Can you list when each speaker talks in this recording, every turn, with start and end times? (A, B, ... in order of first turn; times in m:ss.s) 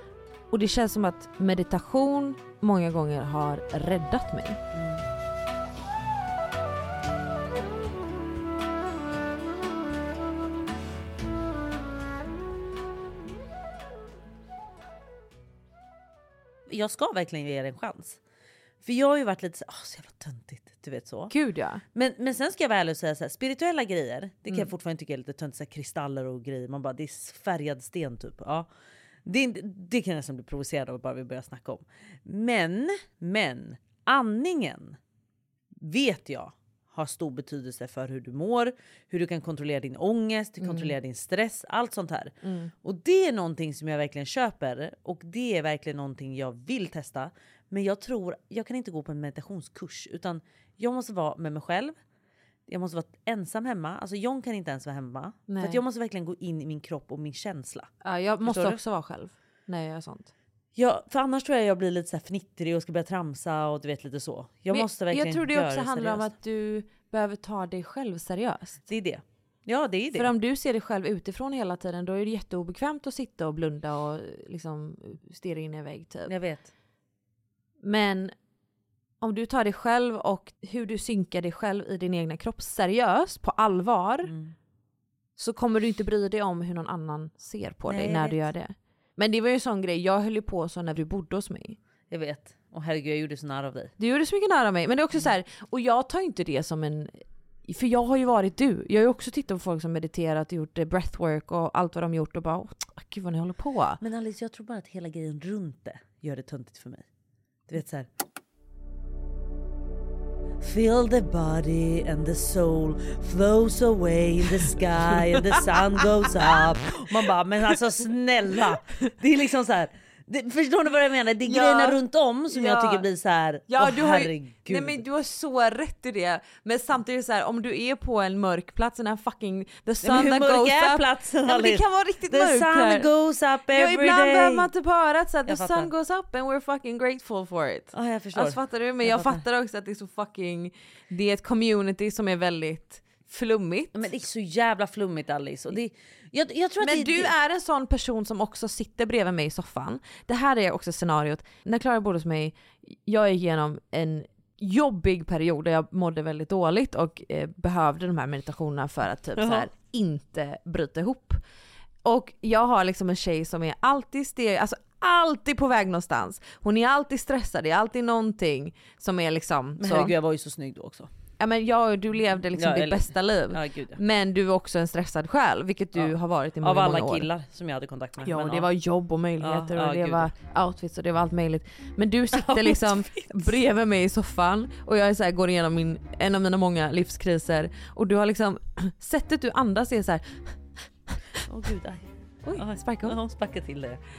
0:00.5-0:04.6 A
0:04.7-0:05.0 B
0:16.7-0:18.2 B
0:18.8-0:21.3 B
0:21.3-0:21.8 A
0:21.9-0:28.7 B
0:29.2-0:35.0 B
0:35.8-0:42.3 B
0:40.6-0:40.9 A
0:42.4-0:42.7 A
0:42.8-0:52.0 B
0:52.7-0:57.9 B
0:55.5-0:55.8 A
0:58.0-1:00.3 A
0:58.4-0:58.8 B
1:00.8-1:06.3 B
1:04.7-1:08.8 A
1:08.9-1:10.3 B
1:10.1-1:16.3 A
1:16.3-1:16.7 B
1:17.8-1:18.3 A
1:19.2-1:24.3 A
1:24.2-1:24.5 B
1:25.4-1:31.8 A
1:27.9-1:28.4 B
1:32.1-1:33.9 B
1:34.0-1:44.0 A
1:44.0-1:47.1 B
1:47.7-1:48.1 B
1:50.6-2:05.0 B
2:01.4-2:02.0 A
2:02.5-2:03.0 A
2:03.7-2:13.1 A
2:10.0-2:14.7 B
2:13.7-2:24.1 A
2:15.5-2:15.9 B
2:17.9-2:19.4 B
2:24.0-2:27.3 B
2:26.8-2:41.4 A
2:39.4-2:39.6 B
2:42.0-2:50.1 A
2:49.8-2:51.1 B
2:51.4-2:57.3 A
2:52.4-2:54.0 B
2:56.0-2:58.7 B
2:58.2-3:10.6 A
2:59.4-3:00.3 B
3:02.3-3:03.5 B
3:11.5-3:14.0 B
3:12.5-3:13.2 A